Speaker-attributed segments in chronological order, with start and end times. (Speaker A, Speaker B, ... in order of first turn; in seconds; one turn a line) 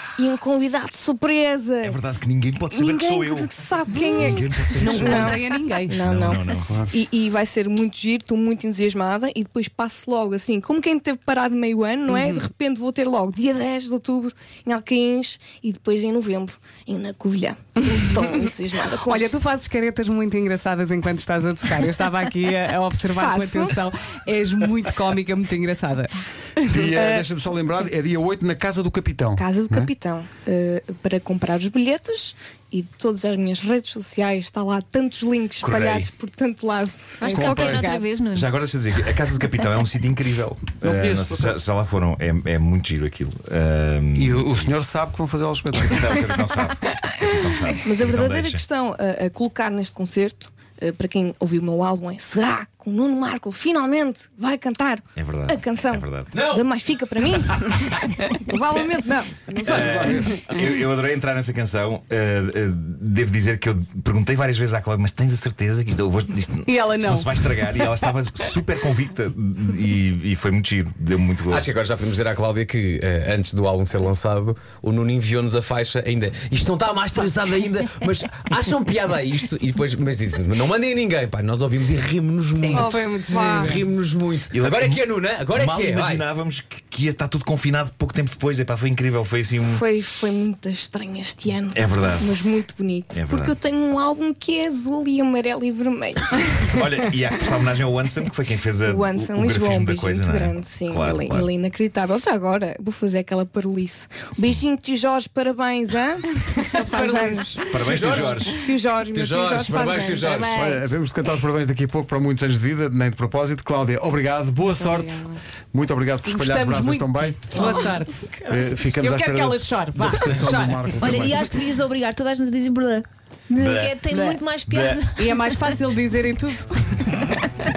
Speaker A: 0.2-2.0
Speaker B: 1.8-3.6
Speaker A: 2.7-19.5
Speaker B: 4.1-5.4
Speaker C: 4.2-6.0
Speaker B: 6.0-6.7
Speaker C: 12.1-12.5
Speaker C: 17.9-18.4
Speaker C: 19.0-27.2
Speaker A: 23.1-23.8
Speaker D: 26.7-29.9
Speaker A: 29.4-38.1
Speaker B: 35.6-36.1
Speaker E: 37.2-38.5
Speaker D: 37.3-37.9
Speaker B: 38.3-44.7
Speaker D: 40.8-41.6
Speaker D: 44.1-46.2
Speaker B: 45.7-48.6
Speaker A: 47.8-60.3
Speaker B: 55.1-56.4
Speaker F: 56.3-57.7
Speaker D: 59.6-60.4
Speaker B: 59.6-71.7
Speaker C: 66.7-67.9
Speaker F: 71.5-86.2
Speaker C: 82.5-83.8
Speaker A: 82.7-83.7
Speaker B: 84.5-89.8
Speaker A: 89.6-96.7
Speaker B: 91.7-92.5
Speaker B: 93.1-93.5
Speaker B: 96.6-101.5
Speaker A: 98.8-110.4
Speaker C: 106.7-108.2
Speaker B: 107.7-108.5
Speaker F: 107.8-110.7
Speaker E: 110.3-110.9
Speaker D: 110.5-117.8
Speaker A: 114.7-115.4
Speaker C: 116.2-120.9
Speaker A: 117.5-118.0
Speaker D: 118.4-121.5
Speaker E: 121.0-123.0
Speaker B: 123.5-124.1
Speaker E: 123.6-125.3
Speaker C: 124.1-124.4
Speaker B: 124.7-125.0
Speaker C: 125.2-127.1